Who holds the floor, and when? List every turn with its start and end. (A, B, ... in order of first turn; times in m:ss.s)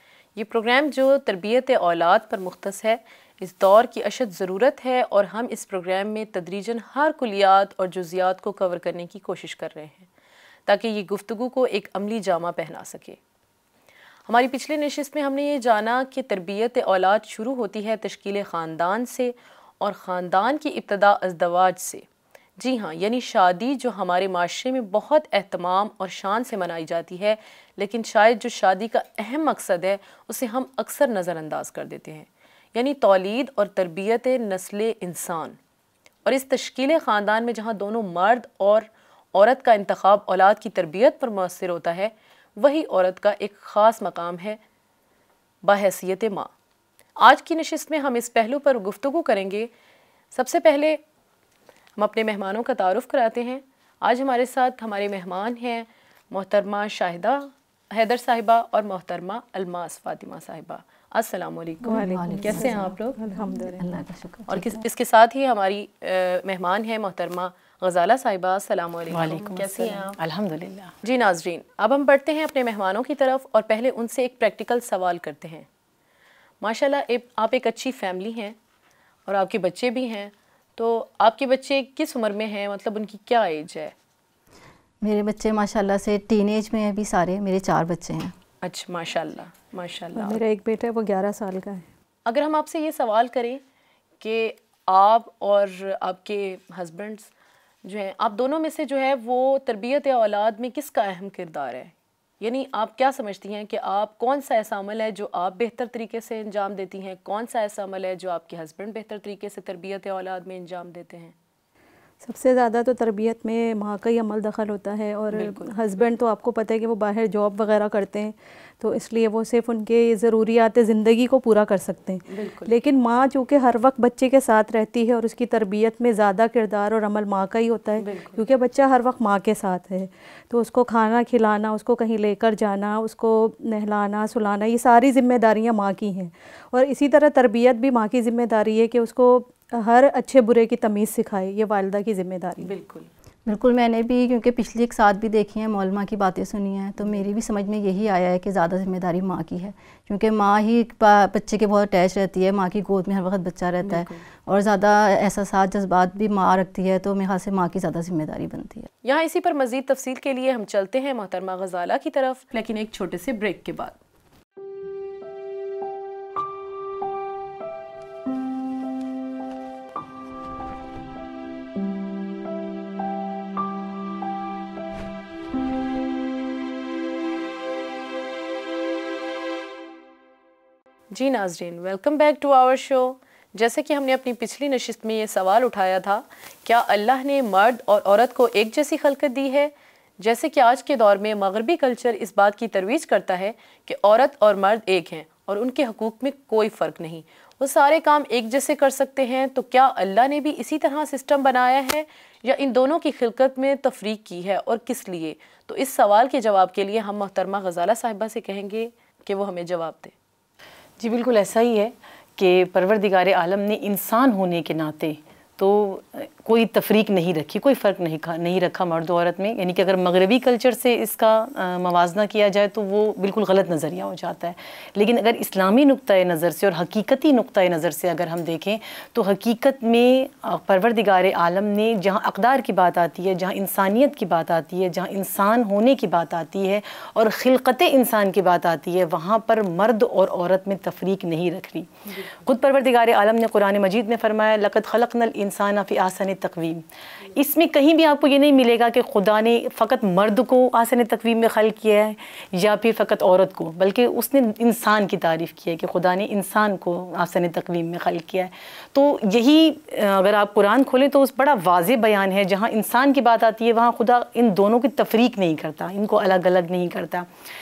0:00.4-0:10.1 A
0:10.6-0:13.2 A
0:14.3-0:22.0 A
0:22.6-0:35.6 A
0:36.2-0:44.6 A
0:45.6-0:46.5 A
0:47.2-0:49.7 A
0:50.3-0:51.0 A
0:52.0-1:03.2 A
1:01.8-1:04.8 B
1:01.8-1:03.8 C
1:04.5-1:10.2 A
1:09.1-1:10.9 D
1:11.0-1:15.7 A
1:16.6-1:18.6 A
1:19.2-1:23.9 A
1:25.0-1:28.3 B
1:28.6-1:30.4 A
1:30.1-1:31.8 C
1:32.2-1:33.6 A
1:34.2-1:37.3 A
1:37.8-1:51.3 A
1:52.2-2:22.7 C
1:55.3-1:55.7 A
2:02.3-2:02.7 A
2:08.0-2:08.4 A
2:22.6-2:23.1 A
2:23.5-2:38.9 B
2:33.8-2:34.2 A
2:39.0-2:44.0 A
3:01.1-3:30.1 A
3:31.0-4:27.3 D